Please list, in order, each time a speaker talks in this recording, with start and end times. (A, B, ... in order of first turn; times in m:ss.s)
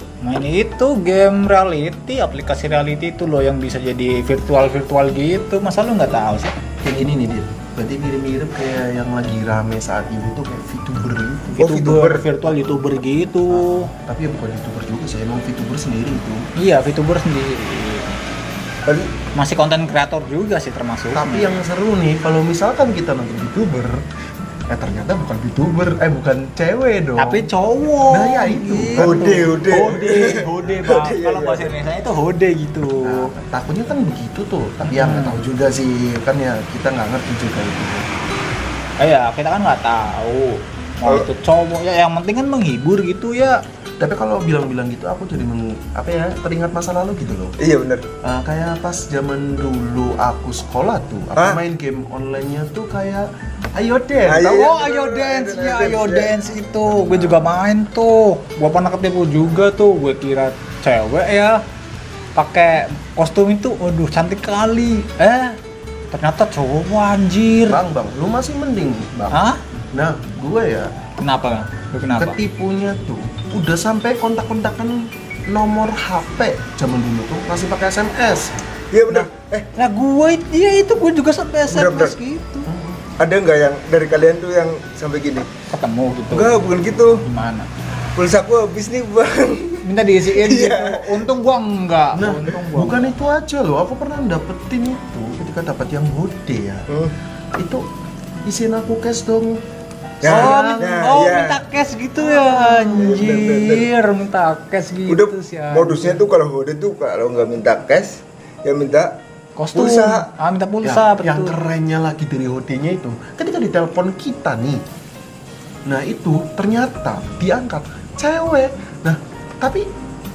0:00.2-0:06.5 A
0:06.8-0:11.6 B
0:11.6-0:12.2 C
0:11.6-0:13.9 A
0:13.5-0:16.5 B
0:16.6-0:18.1 A
0:18.9-0:19.1 C
0:19.3-0:21.6 A
0:21.1-0:24.0 B
0:24.7-0:27.5 B
0:27.2-0:33.3 A
0:28.1-0:29.7 B
0:29.0-0:31.7 C
0:33.0-0:38.1 B
0:34.8-0:35.4 A
0:39.0-0:43.6 A
0:44.0-0:47.6 B
0:47.6-0:48.1 C
0:48.2-0:54.7 B
0:54.3-0:56.3 C
0:54.5-1:01.6 A
0:56.9-0:57.5 B
1:02.4-1:05.6 A
1:06.1-1:07.8 A
1:07.7-1:10.9 B
1:09.3-1:09.6 A
1:11.2-1:12.4 A
1:12.2-1:18.5 B
1:18.9-1:19.7 C
1:19.8-1:22.7 A
1:21.7-1:22.2 C
1:22.7-1:23.0 B
1:23.2-1:25.5 C
1:25.7-1:26.6 A
1:26.3-1:27.2 C
1:27.2-1:27.7 A
1:28.2-1:31.3 C
1:29.8-1:33.1 A
1:32.1-1:36.9 B
1:36.9-1:37.1 C
1:37.6-1:37.8 B
1:38.4-1:39.6 B
1:40.2-1:40.9 B
1:40.2-1:41.6 C
1:40.2-1:46.2 A
1:42.2-1:43.2 B
1:43.0-1:43.9 C
1:45.1-1:49.2 C
1:49.6-1:51.6 A
1:49.7-1:50.3 C
1:50.8-1:54.8 B
1:55.9-1:59.9 B